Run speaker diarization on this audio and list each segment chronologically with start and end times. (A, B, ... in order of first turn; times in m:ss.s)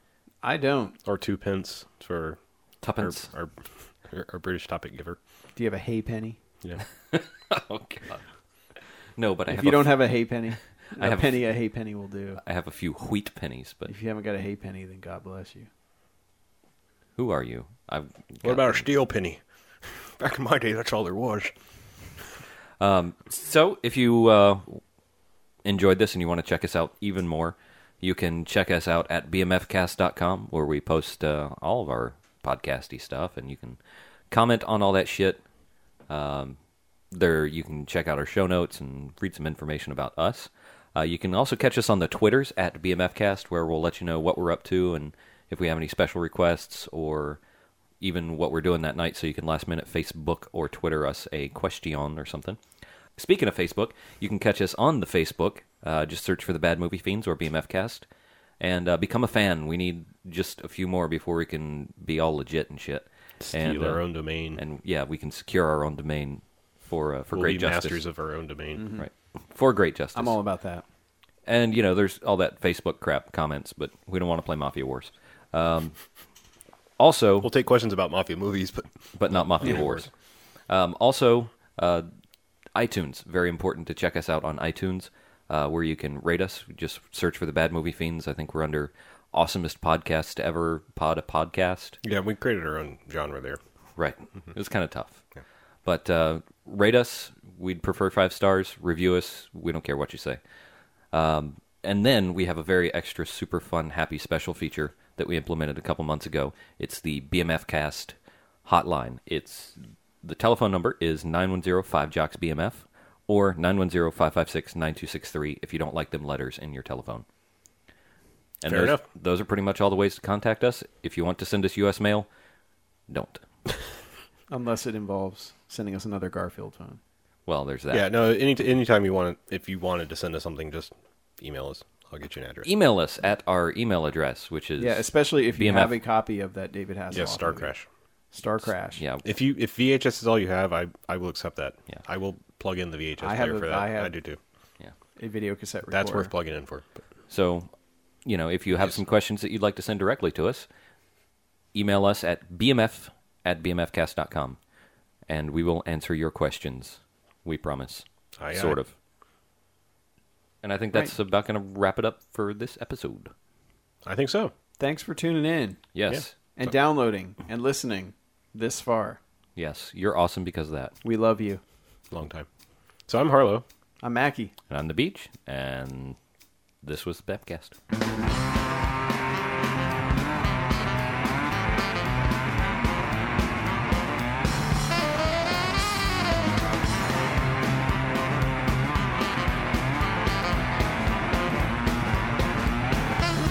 0:00.4-0:01.0 A
0:01.0-0:02.4 B
0:02.8-0:03.3 C
0:03.0-0:05.2 B
0:05.6-0:06.4 A
0:07.1-0:08.2 C
0:09.2-0:11.5 C
0:09.5-0:12.4 A
0:12.4-0:13.9 C
0:13.9-0:15.7 A
0:17.2-0:18.8 C
0:18.4-0:21.5 B
0:22.8-0:24.8 C
0:25.6-0:33.8 C
0:34.3-0:35.4 C
0:36.1-0:36.6 C
0:37.1-0:47.4 C
0:48.0-0:52.6 C
0:53.2-0:58.1 C
0:58.6-1:08.0 C
1:03.4-1:04.6 B
1:07.3-1:08.8 B
1:08.8-1:09.1 A
1:09.0-1:10.4 C
1:10.1-1:10.8 A
1:11.4-1:16.0 C
1:17.0-1:17.5 C
1:17.4-1:20.0 B
1:19.1-1:20.1 C
1:20.7-1:22.1 C
1:22.7-1:32.0 C
1:32.0-1:33.6 B
1:34.0-1:35.2 C
1:35.8-1:40.4 C
1:41.1-1:57.2 C
1:58.6-2:02.3 C
1:58.6-1:59.0 B
2:03.1-2:03.4 C
2:04.5-2:07.0 A
2:07.4-2:08.0 C
2:07.9-2:12.7 B
2:12.6-2:16.0 C
2:14.8-2:17.7 A
2:17.1-2:17.8 B
2:18.3-2:19.0 A
2:18.9-2:19.2 C
2:19.2-2:24.4 B
2:23.2-2:24.1 A
2:25.2-2:26.3 A
2:25.9-2:26.8 B
2:27.3-2:27.7 C
2:28.2-2:30.7 C
2:31.7-2:34.6 C
2:35.3-2:38.9 C
2:38.4-2:38.8 B
2:40.6-2:43.3 C
2:44.0-2:44.5 B
2:44.8-2:45.8 A
2:45.9-2:46.3 C
2:46.5-2:49.2 A
2:49.6-2:50.9 C
2:51.0-2:51.6 A
2:52.1-2:52.5 B
2:53.1-2:53.6 B
2:54.0-2:54.5 A
2:54.7-2:56.2 C
2:56.8-2:57.8 C